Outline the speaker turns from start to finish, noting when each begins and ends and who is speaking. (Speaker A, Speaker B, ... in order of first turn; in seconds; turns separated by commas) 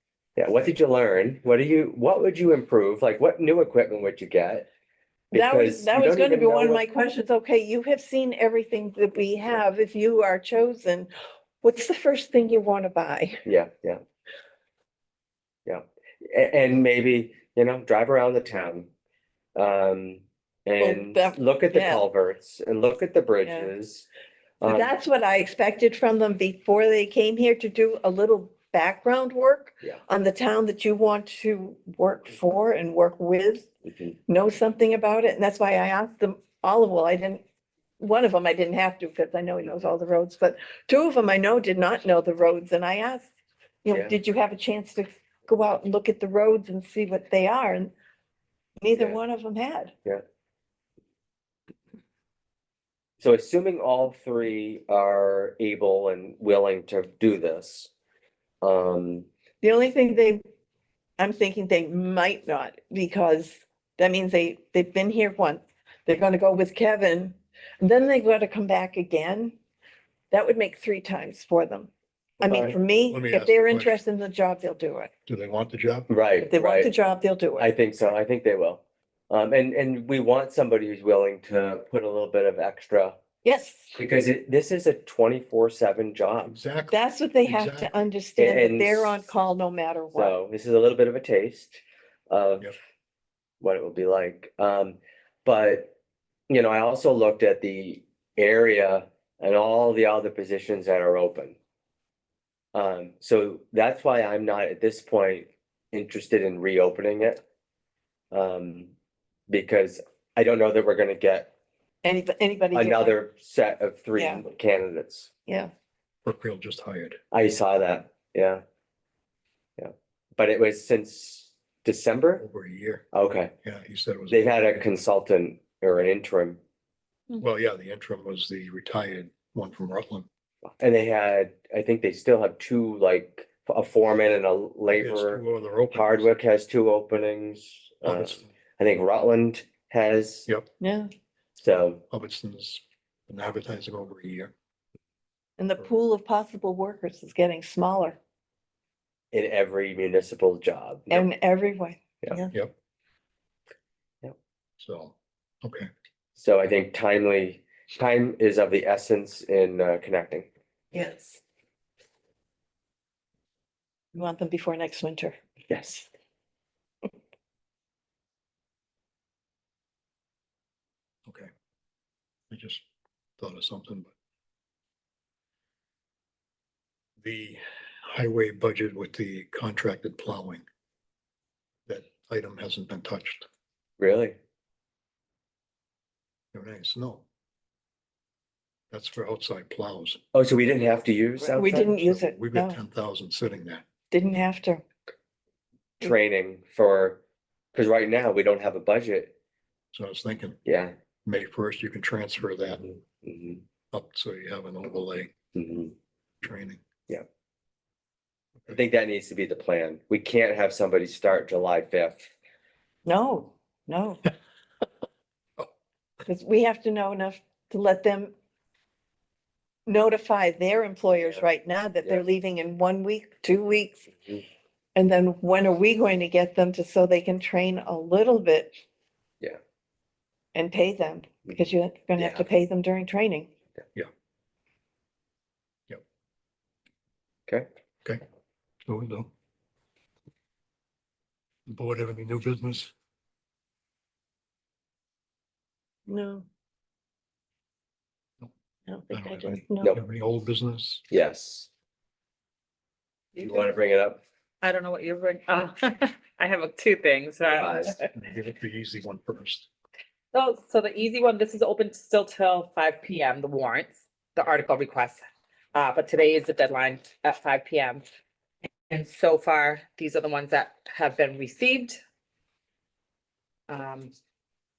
Speaker A: 0.4-4.7, Speaker B: 5.3-11.1, Speaker A: 5.3-6.8, Speaker B: 11.6-13.4, Speaker A: 13.4-14.0, Speaker A: 15.7-18.9, Speaker A: 19.6-24.1, Speaker B: 20.8-22.0, Speaker B: 23.4-23.7, Speaker A: 24.6-24.9, Speaker B: 24.6-33.7, Speaker B: 34.3-37.4, Speaker B: 38.0-43.3, Speaker B: 43.8-47.9, Speaker B: 48.8-49.9, Speaker A: 53.2-57.9, Speaker A: 58.6-59.3, Speaker B: 59.6-60.4, Speaker B: 61.2-69.5, Speaker B: 70.3-71.9, Speaker B: 72.4-75.1, Speaker A: 72.4-72.8, Speaker C: 73.1-74.0, Speaker C: 75.3-76.1, Speaker A: 76.1-76.9, Speaker B: 76.4-77.7, Speaker A: 77.6-83.2, Speaker B: 83.4-83.9, Speaker A: 83.9-86.5, Speaker C: 86.4-88.0, Speaker B: 86.9-90.3, Speaker A: 88.4-89.2, Speaker A: 90.1-92.7, Speaker A: 93.6-95.9, Speaker A: 96.5-101.5, Speaker A: 102.7-107.4, Speaker A: 108.3-108.9, Speaker A: 109.5-111.5, Speaker B: 112.0-113.2, Speaker A: 112.7-115.3, Speaker B: 114.2-114.4, Speaker B: 115.5-115.7, Speaker C: 116.2-117.2, Speaker A: 117.3-118.6, Speaker A: 119.8-122.4, Speaker C: 122.4-123.0, Speaker A: 123.1-123.5, Speaker C: 123.6-124.4, Speaker A: 124.3-126.6, Speaker C: 127.4-130.3, Speaker A: 130.8-140.5, Speaker C: 134.9-136.3, Speaker C: 138.0-138.5, Speaker B: 140.8-141.1, Speaker A: 141.6-142.0, Speaker C: 142.1-144.5, Speaker B: 145.6-148.2, Speaker A: 149.3-151.2, Speaker B: 151.1-152.5, Speaker C: 154.8-155.9, Speaker A: 156.3-160.5, Speaker B: 160.9-161.4, Speaker B: 164.1-165.3, Speaker A: 165.7-166.1, Speaker C: 172.5-172.8, Speaker C: 173.4-174.1, Speaker C: 177.2-180.6, Speaker C: 181.9-183.4, Speaker A: 184.0-184.3, Speaker C: 186.5-187.2, Speaker C: 188.9-190.2, Speaker A: 190.3-191.8, Speaker B: 191.5-192.8, Speaker C: 191.8-193.8, Speaker B: 194.1-194.8, Speaker A: 196.0-197.2, Speaker A: 197.7-199.3, Speaker C: 199.9-200.6, Speaker A: 200.6-200.9, Speaker C: 201.2-202.8, Speaker A: 202.9-203.6, Speaker C: 203.9-205.3, Speaker A: 205.5-205.9, Speaker C: 206.4-206.8, Speaker A: 208.7-212.3, Speaker B: 213.0-214.3, Speaker B: 216.2-218.3, Speaker B: 219.8-224.2, Speaker A: 221.2-221.4, Speaker B: 224.9-228.8, Speaker B: 230.5-233.5, Speaker A: 232.2-232.4, Speaker C: 238.8-239.3, Speaker C: 241.7-242.9, Speaker B: 246.1-246.4, Speaker B: 248.9-249.9, Speaker C: 249.1-251.0, Speaker A: 251.1-251.7, Speaker A: 253.3-254.2, Speaker D: 254.6-258.1, Speaker A: 257.4-257.9, Speaker C: 258.1-259.7, Speaker D: 260.3-265.2, Speaker D: 265.7-268.0, Speaker D: 268.9-272.0, Speaker D: 273.7-274.1